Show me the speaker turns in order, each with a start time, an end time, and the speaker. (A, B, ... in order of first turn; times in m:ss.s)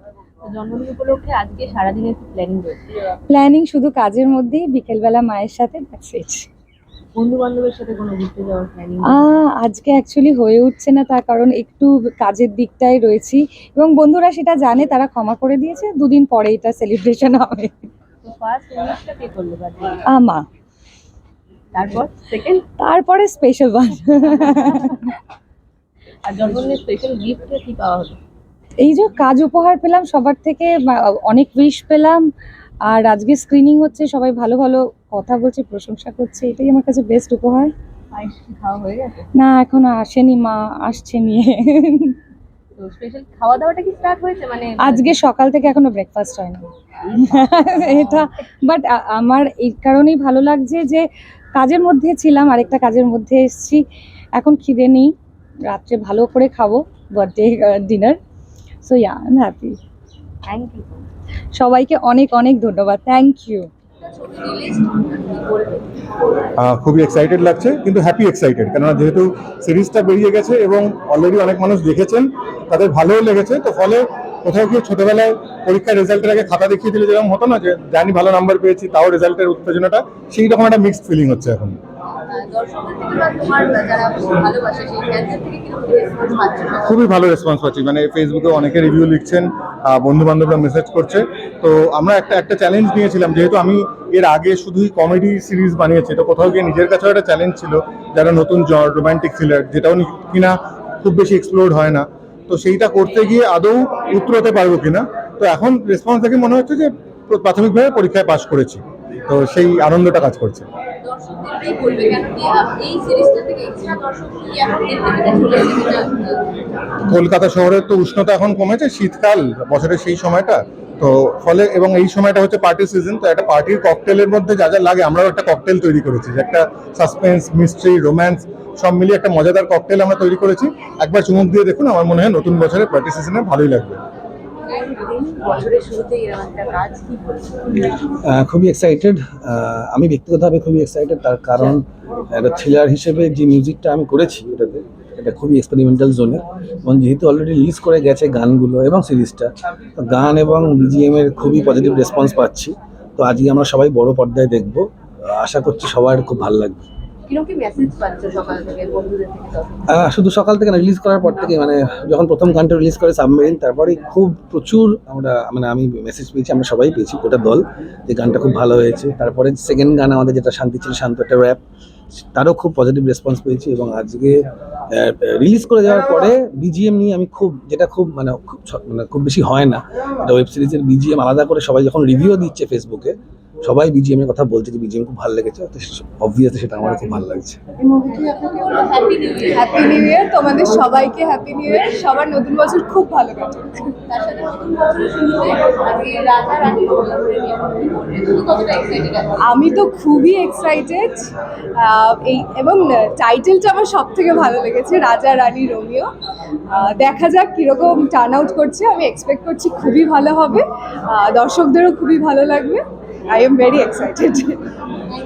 0:00.4-0:02.9 A
0:03.3-0:06.5 B
0:07.2-0:09.2 A
0:09.1-0:17.7 B
0:18.2-0:20.0 A
0:20.1-0:20.4 B
0:21.7-0:22.6 A
0:22.8-0:25.0 B
0:26.2-0:28.2 A
0:28.8-0:32.2 B
0:32.8-0:37.7 B
0:38.1-0:39.2 A
0:39.4-0:42.2 B
0:42.8-0:45.1 A
0:44.8-0:46.6 B
0:47.2-0:53.8 B
0:47.3-0:48.1 A
0:54.4-0:55.1 B
0:55.7-0:58.2 B
0:58.8-0:59.8 B
1:00.5-1:01.0 A
1:01.6-1:03.7 B
1:04.0-1:05.9 A
1:06.6-1:21.8 C
1:22.3-1:27.0 A
1:26.8-1:50.7 C
1:51.0-1:56.4 A
1:57.1-2:14.0 C
2:14.7-2:17.8 A
2:18.2-2:36.8 D
2:37.3-2:39.9 A
2:39.9-2:51.6 D
2:52.2-2:54.4 D
2:54.9-3:07.6 D
3:07.9-3:09.7 A
3:09.5-3:13.8 E
3:14.1-3:19.3 A
3:19.5-3:21.2 E
3:21.8-3:26.1 E
3:26.7-3:34.5 E